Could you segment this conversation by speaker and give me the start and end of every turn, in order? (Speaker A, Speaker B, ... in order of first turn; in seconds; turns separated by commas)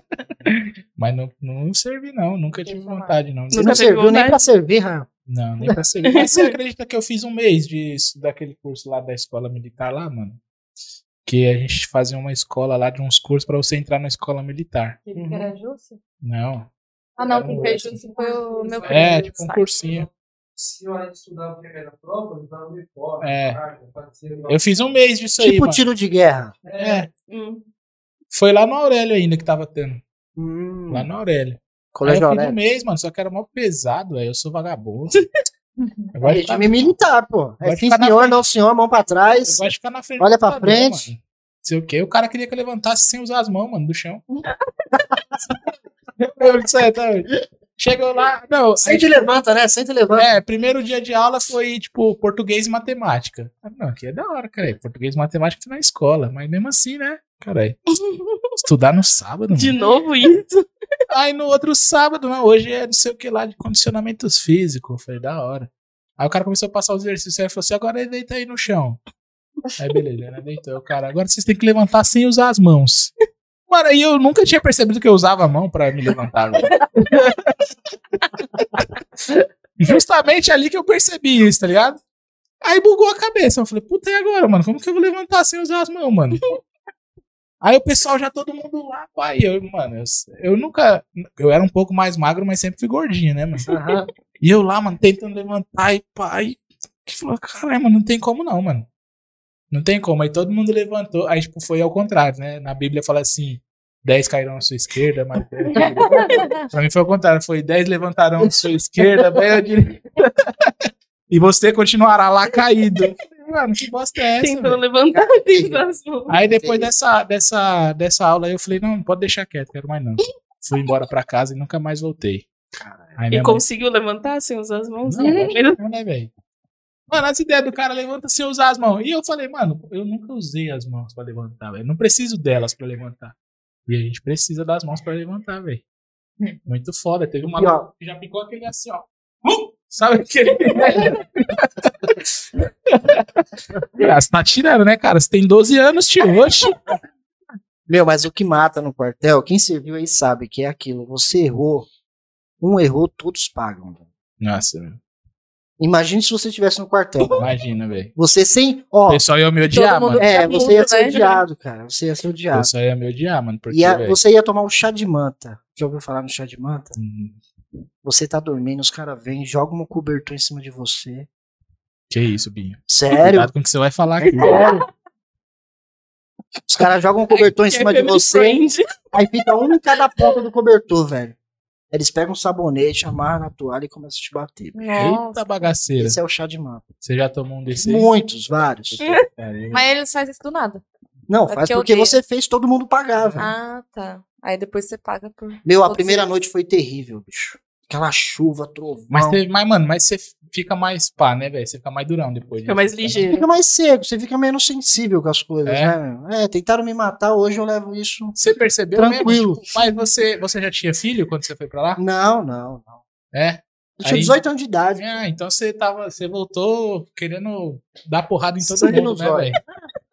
Speaker A: 0.5-3.9, Speaker B: 2.6-3.2, Speaker C: 3.5-4.4, Speaker D: 3.5-5.1, Speaker A: 5.3-10.4, Speaker C: 6.1-6.5, Speaker A: 11.2-15.0, Speaker B: 15.1-16.0, Speaker D: 15.2-15.5, Speaker A: 16.2-16.7, Speaker B: 17.2-19.7, Speaker E: 17.2-25.0, Speaker A: 17.3-18.0, Speaker A: 18.9-20.1, Speaker A: 23.2-23.6, Speaker A: 24.5-25.9, Speaker D: 25.4-26.6, Speaker E: 26.6-27.1, Speaker A: 26.8-27.1, Speaker C: 27.3-27.6, Speaker A: 28.3-30.0, Speaker D: 30.4-31.1, Speaker A: 30.9-35.2, Speaker D: 31.9-32.6, Speaker B: 35.8-36.1, Speaker A: 36.1-36.9, Speaker D: 36.2-39.6, Speaker A: 37.6-38.4, Speaker A: 39.4-44.2, Speaker D: 40.2-41.1, Speaker A: 46.2-49.2, Speaker D: 48.8-50.3, Speaker A: 50.1-57.8, Speaker C: 57.9-58.5, Speaker A: 58.6-59.7, Speaker C: 59.5-60.7, Speaker A: 61.1-69.0, Speaker A: 69.8-73.1, Speaker A: 73.7-77.5, Speaker A: 79.8-82.0, Speaker A: 82.6-86.4, Speaker A: 87.6-93.7, Speaker D: 93.7-94.1, Speaker A: 94.4-98.9, Speaker A: 99.7-110.7, Speaker B: 105.8-106.7, Speaker D: 108.4-109.1, Speaker A: 111.3-114.8, Speaker C: 114.4-116.3, Speaker D: 115.1-115.9, Speaker A: 116.3-122.5, Speaker D: 116.4-116.9, Speaker D: 122.7-123.2, Speaker A: 123.2-123.7, Speaker C: 123.3-125.8, Speaker A: 125.0-126.3, Speaker B: 125.2-125.5, Speaker A: 127.1-133.3, Speaker A: 133.9-135.8, Speaker A: 136.7-143.4, Speaker D: 137.6-137.9, Speaker A: 143.9-146.8, Speaker D: 147.9-151.9, Speaker D: 152.6-154.1, Speaker A: 154.4-155.0, Speaker D: 155.8-157.5, Speaker A: 157.4-158.1, Speaker D: 158.2-159.2, Speaker A: 159.1-160.3, Speaker B: 159.7-161.4, Speaker D: 160.2-162.7, Speaker A: 162.5-164.2, Speaker D: 163.7-167.0, Speaker A: 167.0-167.4, Speaker D: 168.0-171.3, Speaker A: 172.1-174.7, Speaker D: 172.9-173.5, Speaker D: 174.2-174.8, Speaker C: 174.4-174.7, Speaker D: 176.7-178.6, Speaker C: 177.3-178.8, Speaker D: 179.1-181.4, Speaker D: 181.9-185.1, Speaker B: 184.7-185.6, Speaker A: 184.9-186.2, Speaker D: 186.0-186.9, Speaker A: 187.0-188.1, Speaker D: 187.8-189.0, Speaker A: 188.9-189.8, Speaker B: 189.7-190.8, Speaker D: 191.3-193.5, Speaker B: 191.5-192.2, Speaker A: 193.2-193.5, Speaker B: 193.4-196.3, Speaker D: 195.7-199.4, Speaker A: 199.1-203.3, Speaker C: 202.7-203.4, Speaker D: 203.3-208.4, Speaker A: 205.7-206.0, Speaker A: 208.3-212.0, Speaker D: 208.9-209.8, Speaker D: 212.0-213.0, Speaker A: 213.3-214.4, Speaker D: 214.0-215.1, Speaker A: 215.0-219.6, Speaker D: 218.6-219.7